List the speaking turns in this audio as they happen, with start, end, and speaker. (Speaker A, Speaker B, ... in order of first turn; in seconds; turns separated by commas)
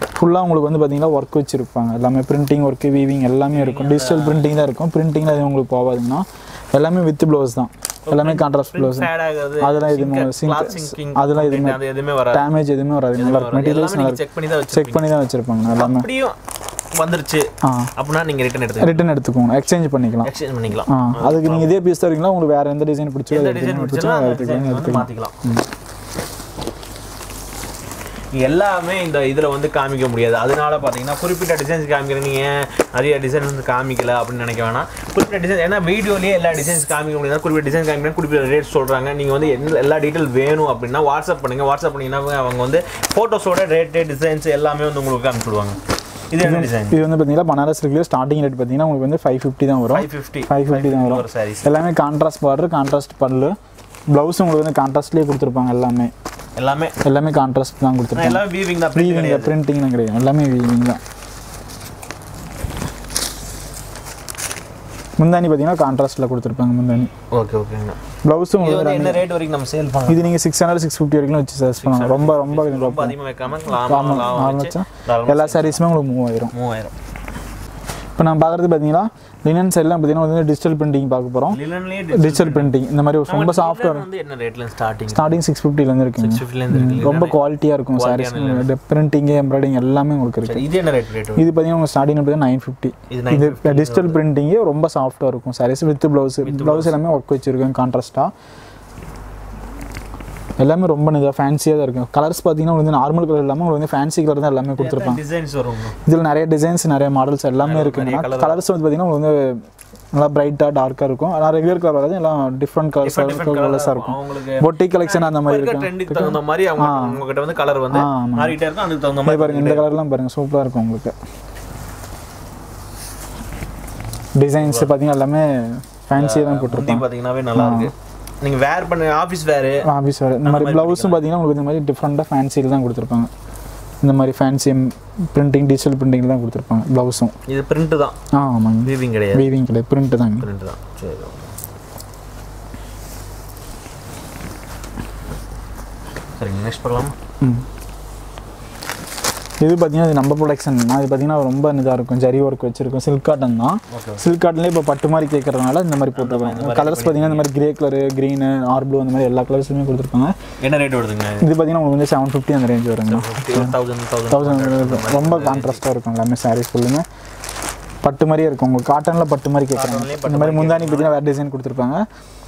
Speaker A: 0.2-16.1, Speaker B: 3.5-4.6, Speaker B: 8.1-12.5, Speaker B: 13.2-15.1, Speaker B: 15.7-16.4, Speaker B: 16.9-19.1, Speaker A: 17.6-17.9, Speaker A: 18.8-20.3, Speaker B: 20.2-21.7, Speaker A: 20.9-25.6, Speaker B: 23.3-25.4, Speaker B: 28.3-45.8, Speaker B: 46.3-47.0, Speaker A: 46.4-53.6, Speaker B: 49.9-51.7, Speaker A: 54.1-56.1, Speaker B: 56.6-57.0, Speaker A: 57.0-61.0, Speaker B: 58.1-59.6, Speaker A: 65.2-67.1, Speaker B: 67.3-68.0, Speaker A: 68.2-69.2, Speaker B: 68.6-70.4, Speaker A: 70.1-76.5, Speaker B: 71.8-75.8, Speaker B: 76.5-76.9, Speaker A: 78.2-81.6, Speaker B: 81.5-82.8, Speaker A: 82.1-84.0, Speaker B: 83.3-85.3, Speaker A: 85.1-90.7, Speaker B: 86.2-87.4, Speaker B: 87.9-88.7, Speaker B: 90.4-91.5, Speaker A: 91.4-98.3, Speaker B: 93.1-94.2, Speaker B: 96.4-97.0, Speaker A: 100.6-105.2, Speaker B: 104.8-106.0, Speaker A: 106.1-109.6, Speaker B: 107.6-108.6, Speaker A: 110.1-117.2, Speaker B: 113.0-119.9, Speaker A: 117.9-118.6, Speaker A: 119.2-121.1, Speaker A: 124.4-127.9, Speaker B: 124.6-125.0, Speaker B: 126.2-129.9, Speaker A: 129.8-133.3, Speaker B: 130.4-131.2, Speaker A: 134.0-137.3, Speaker B: 137.5-138.2, Speaker A: 138.3-140.5, Speaker B: 138.8-139.5, Speaker B: 140.4-141.5, Speaker B: 146.4-147.1, Speaker A: 149.6-160.3, Speaker B: 153.9-154.2, Speaker B: 156.1-157.5, Speaker B: 160.6-161.5, Speaker A: 161.4-163.8, Speaker B: 163.1-165.8, Speaker A: 164.3-167.1, Speaker A: 168.0-172.1, Speaker B: 169.7-171.2